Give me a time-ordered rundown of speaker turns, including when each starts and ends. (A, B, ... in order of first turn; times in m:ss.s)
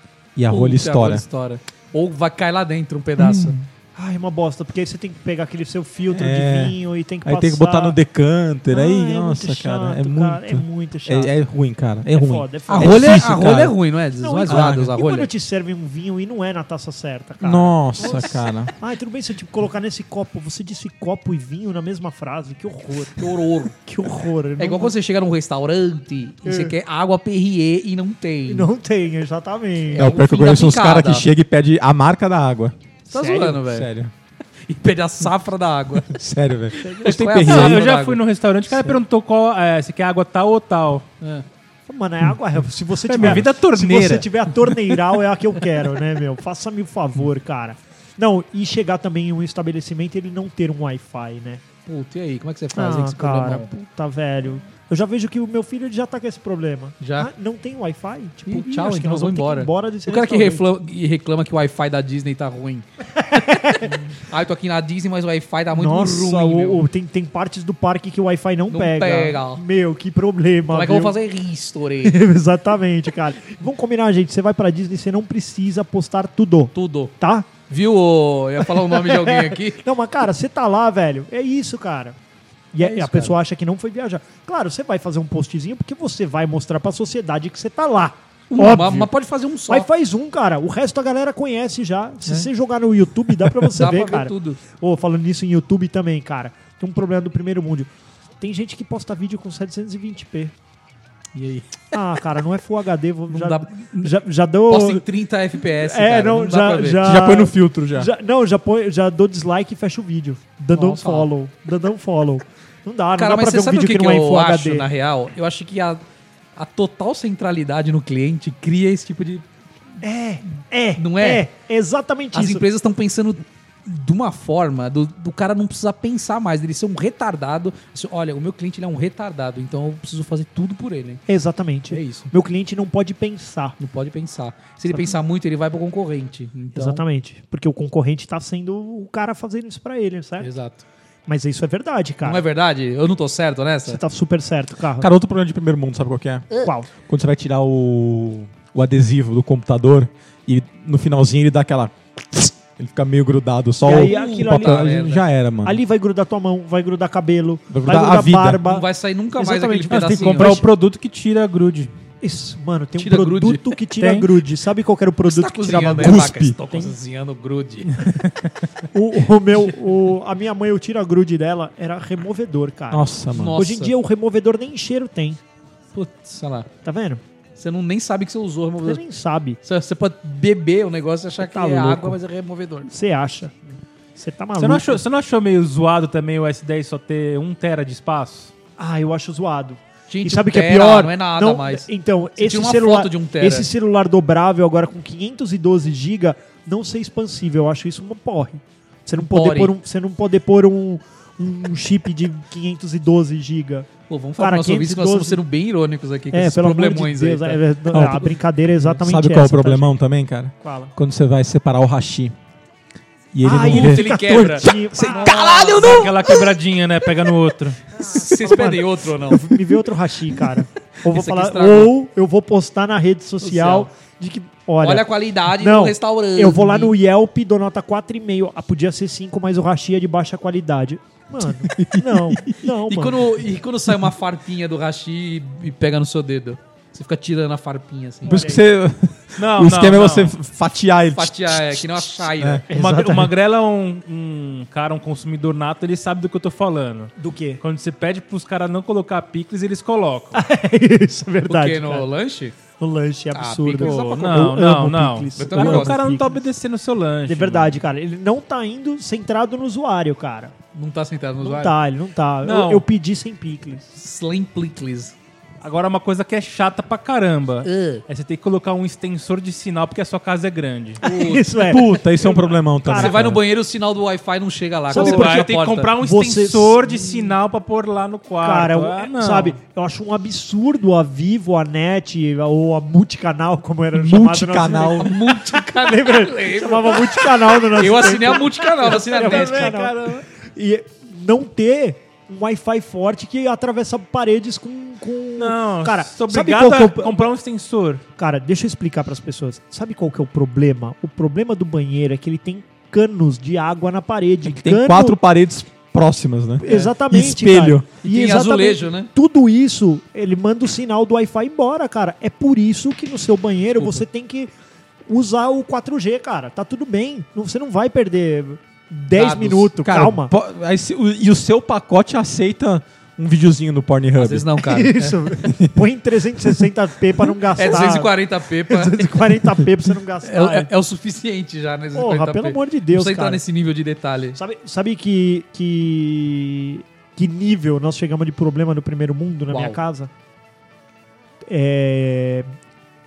0:00.4-0:01.2 A
0:00.5-0:03.6 B
0:03.2-0:03.7 A
0:04.0-0:08.0 C
0:06.1-0:13.8 A
0:08.7-0:11.4 C
0:12.1-0:13.2 C
0:12.7-0:15.3 B
0:14.2-0:23.2 C
0:14.5-0:14.9 A
0:17.4-0:18.7 A
0:23.2-0:23.8 B
0:23.8-0:24.9 C
0:24.6-0:28.7 B
0:26.4-0:26.8 C
0:28.5-0:30.1 C
0:29.9-0:31.3 B
0:30.0-0:32.8 A
0:33.1-0:33.9 B
0:33.1-0:33.6 C
0:33.5-0:34.1 A
0:34.7-0:36.1 B
0:36.1-0:37.9 A
0:36.8-0:38.2 B
0:36.8-0:37.1 C
0:37.5-0:41.1 D
0:41.2-0:41.5 B
0:41.9-0:51.6 C
0:43.0-0:45.0 D
0:51.9-0:53.7 B
0:52.8-1:00.6 C
0:57.0-0:57.3 B
0:58.5-1:02.8 B
1:03.2-1:03.9 C
1:03.8-1:06.8 B
1:05.7-1:11.2 C
1:08.7-1:09.6 B
1:10.7-1:12.2 B
1:12.0-1:17.5 C
1:16.7-1:17.1 B
1:17.7-1:19.8 B
1:18.7-1:22.2 C
1:22.7-1:29.1 C
1:22.8-1:23.4 B
1:28.5-1:29.9 B
1:29.7-1:40.5 C
1:33.7-1:34.6 B
1:41.4-1:42.0 B
1:41.9-1:45.0 C
1:43.3-1:44.1 B
1:44.7-1:47.1 B
1:45.7-1:54.9 C
1:47.0-1:48.1 A
1:50.7-1:51.3 B
1:53.2-1:56.0 B
1:56.6-1:59.4 B
2:00.0-2:02.6 C
2:01.0-2:01.4 B
2:02.3-2:11.2 B
2:11.3-2:13.8 C
2:11.9-2:12.3 B
2:13.8-2:17.0 B
2:14.9-2:15.2 C
2:16.8-2:20.5 C
2:20.4-2:20.8 B
2:21.3-2:22.4 C
2:22.2-2:24.0 B
2:23.9-2:25.1 C
2:25.0-2:26.5 A
2:26.6-2:26.9 C
2:27.1-2:35.8 A
2:33.8-2:35.1 C
2:33.9-2:35.2 B
2:35.6-2:40.7 C
2:37.7-2:38.6 A
2:38.6-2:40.6 B
2:39.9-2:41.9 D
2:42.2-2:46.9 C
2:43.0-2:43.7 B
2:44.0-2:44.3 D
2:45.3-2:48.0 B
2:46.0-2:46.6 A
2:47.9-2:48.5 D
2:48.9-2:55.4 C
2:52.9-2:53.6 A
2:53.3-2:53.9 B
2:55.9-2:56.7 B
2:56.8-2:57.2 C
2:57.6-2:59.0 B
2:58.8-2:59.6 C
2:59.6-3:02.9 B
3:01.4-3:02.2 C
3:02.9-3:03.5 C
3:04.2-3:05.0 C
3:04.6-3:08.5 D
3:08.8-3:25.4 C
3:10.1-3:13.7 B
3:19.2-3:19.7 B
3:24.1-3:27.6 B
3:26.3-3:30.0 C
3:27.9-3:28.4 A
3:29.0-3:32.4 A
3:30.6-3:30.9 C
3:33.3-3:36.3 A
3:33.4-3:35.8 C
3:33.6-3:36.3 B
3:35.6-3:37.8 D
3:38.0-3:39.6 B
3:38.0-3:53.3 C
3:41.1-3:41.9 B
3:43.4-3:43.9 B
3:44.8-3:47.0 B
3:51.5-3:52.7 A
3:52.9-3:58.5 B
3:58.2-3:58.6 C
3:58.2-4:02.6 A
3:59.4-4:00.3 D
4:01.2-4:02.6 B
4:02.7-4:03.3 C
4:02.7-4:10.4 D
4:07.2-4:07.6 C
4:10.4-4:12.1 C
4:11.5-4:12.6 B
4:12.8-4:16.4 C
4:13.3-4:14.3 B
4:13.8-4:17.8 D
4:15.4-4:16.1 B
4:17.3-4:20.5 C
4:20.7-4:21.8 B
4:21.4-4:23.9 C
4:22.4-4:22.9 D
4:24.0-4:25.1 B
4:25.6-4:31.0 D
4:27.6-4:28.0 B
4:31.0-4:31.7 B
4:31.0-4:33.2 C
4:31.6-4:33.4 A
4:32.9-4:35.9 B
4:34.9-4:37.3 C
4:34.9-4:39.6 D
4:38.4-4:57.2 C
4:43.9-4:45.2 A
4:44.9-4:49.8 B
4:48.9-4:50.2 D
4:55.4-4:58.0 D
4:58.2-5:05.2 C
5:04.4-5:07.9 A
5:06.6-5:14.5 C
5:08.0-5:09.1 B
5:15.1-5:20.3 C
5:19.1-5:19.7 B
5:19.8-5:24.5 A
5:24.2-5:25.2 B
5:24.6-5:30.7 C
5:25.4-5:25.7 A
5:27.5-5:29.3 B
5:30.2-5:34.4 B
5:32.0-5:33.4 C
5:34.4-5:40.1 C
5:39.5-5:39.8 B
5:41.5-5:42.5 C